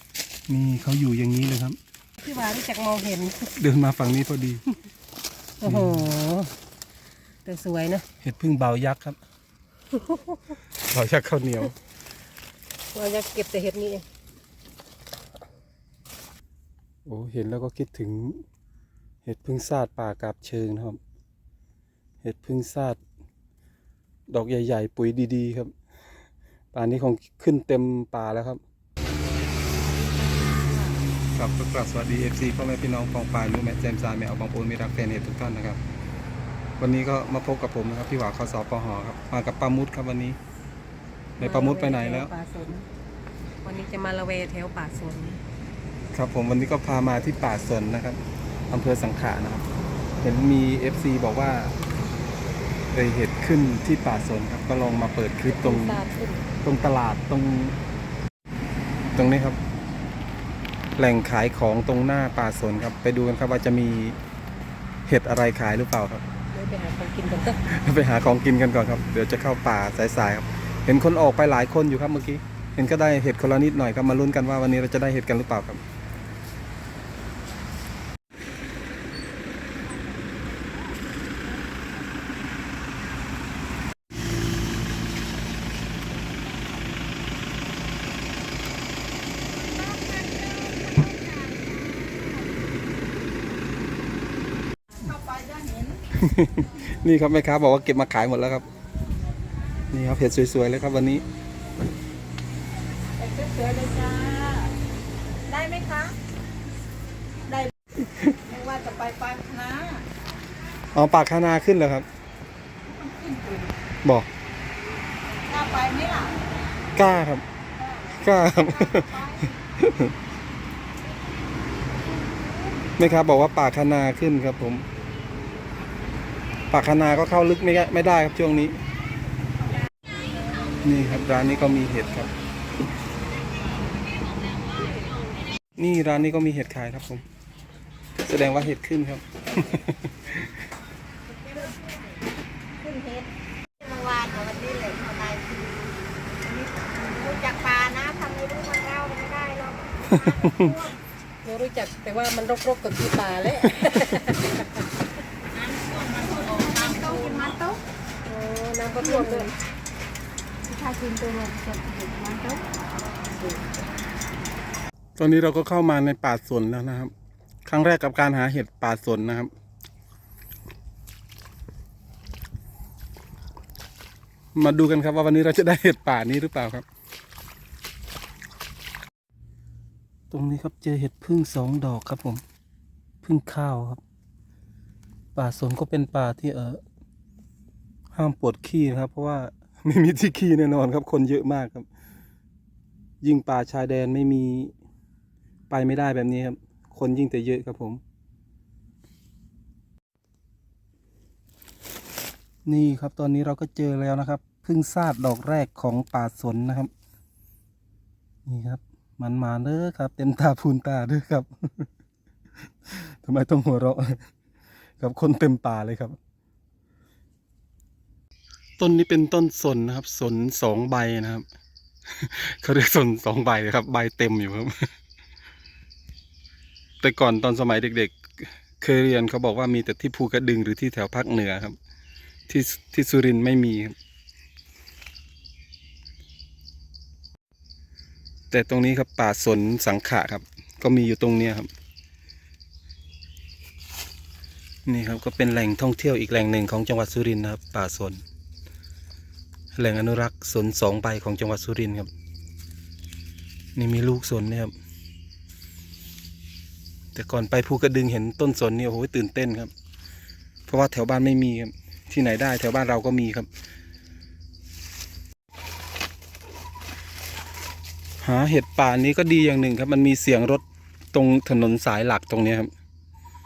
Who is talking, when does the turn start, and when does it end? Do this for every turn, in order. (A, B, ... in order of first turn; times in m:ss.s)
0:00.5-0:01.8 A
0:02.2-0:03.5 B
0:03.6-0:04.6 A
0:05.6-0:06.5 B
0:05.6-0:06.1 A
0:07.4-0:08.0 B
0:08.2-0:09.2 A
0:09.9-0:10.4 B
0:10.9-0:11.7 A
0:12.9-0:14.0 B
0:17.0-0:18.4 A
0:19.2-0:21.0 A
0:22.2-0:23.0 A
0:24.3-0:25.7 A
0:26.7-0:28.6 A
0:31.3-0:35.8 A
0:36.8-0:40.4 A
0:41.4-0:42.3 A
0:41.4-0:42.9 B
0:43.6-0:45.4 B
0:46.1-0:48.2 A
0:48.7-0:49.6 A
0:50.2-0:51.7 A
0:52.9-0:56.0 A
0:55.5-0:56.4 B
0:56.6-0:57.7 A
0:59.1-0:59.6 A
1:01.0-1:04.2 A
1:05.1-1:06.2 A
1:06.5-1:07.6 B
1:07.7-1:15.8 A
1:29.9-1:31.7 C
1:35.0-1:36.0 C
1:36.1-1:38.6 A
1:39.9-1:41.2 A
1:43.2-1:44.7 C
1:45.5-1:46.2 C
1:48.4-1:50.0 C
1:50.9-1:52.0 A
1:53.0-1:53.7 C
1:55.5-1:56.3 C
1:56.9-1:57.4 A
1:58.0-2:00.1 A
2:03.0-2:04.8 A
2:06.7-2:08.8 A
2:10.8-2:12.3 A
2:15.8-2:17.2 A
2:18.2-2:20.6 A
2:22.8-2:25.8 C
2:26.5-2:30.7 C
2:30.0-2:30.9 A
2:31.4-2:34.9 B
2:35.7-2:37.8 C
2:36.9-2:37.5 B
2:38.2-2:39.5 B
2:39.2-2:39.5 C
2:40.7-2:42.6 C
2:45.2-2:47.1 A
2:47.6-2:49.5 A
2:54.5-2:56.8 A
3:00.3-3:02.4 A
3:03.2-3:04.0 A
3:05.3-3:06.8 A
3:08.1-3:11.8 A
3:13.2-3:14.7 A
3:15.7-3:18.0 A
3:22.6-3:26.9 A
3:28.4-3:31.9 A
3:32.9-3:34.2 A
3:35.0-3:36.2 A
3:38.8-3:41.4 A
3:42.1-3:44.9 A
3:47.0-3:51.8 A
3:52.5-3:53.9 A
3:58.5-4:01.7 A
4:04.8-4:08.2 A
4:09.8-4:12.1 A
4:13.7-4:14.7 A
4:17.1-4:19.7 A
4:20.7-4:23.5 A
4:28.2-4:32.7 A